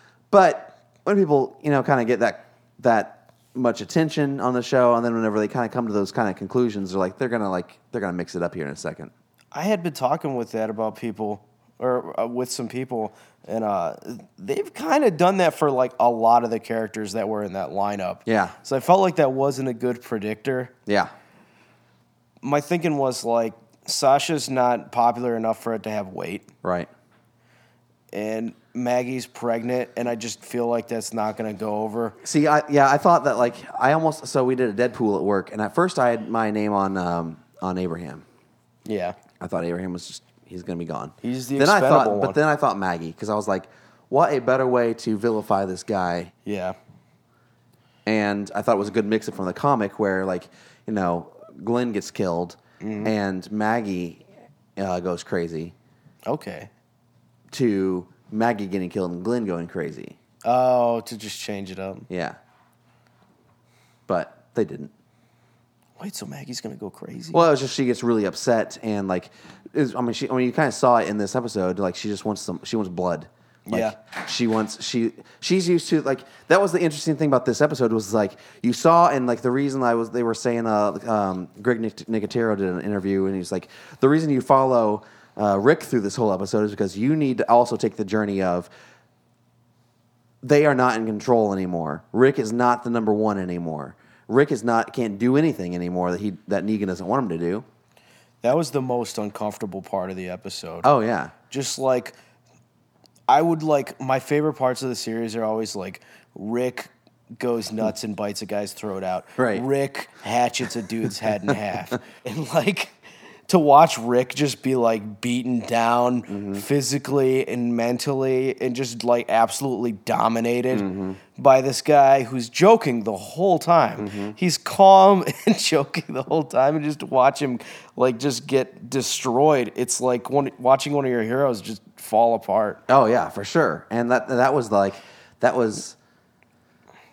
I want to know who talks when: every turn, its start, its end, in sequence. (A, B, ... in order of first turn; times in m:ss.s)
0:00.3-0:09.1 A
0:09.5-0:20.7 B
0:18.2-0:18.5 A
0:22.4-0:26.5 B
0:26.6-0:26.9 A
0:28.1-0:32.2 B
0:32.2-0:38.2 A
0:38.8-0:39.2 B
0:39.4-0:46.3 A
0:41.2-0:42.4 B
0:46.4-0:46.8 B
0:48.0-0:54.2 A
0:52.8-0:53.1 B
0:54.8-0:55.7 A
0:56.2-0:56.7 B
0:57.5-1:00.2 A
1:00.4-1:02.1 B
1:02.1-1:02.4 A
1:04.1-1:04.9 A
1:06.0-1:07.4 B
1:07.3-1:28.7 A
1:13.7-1:14.0 B
1:30.4-1:37.6 A
1:38.4-1:40.9 B
1:40.8-1:41.3 A
1:41.5-1:42.1 B
1:43.3-1:53.0 B
1:49.4-1:49.6 A
1:53.5-2:12.8 B
1:56.3-1:56.6 A
2:00.7-2:01.2 A
2:04.0-2:04.4 A
2:12.9-2:16.0 A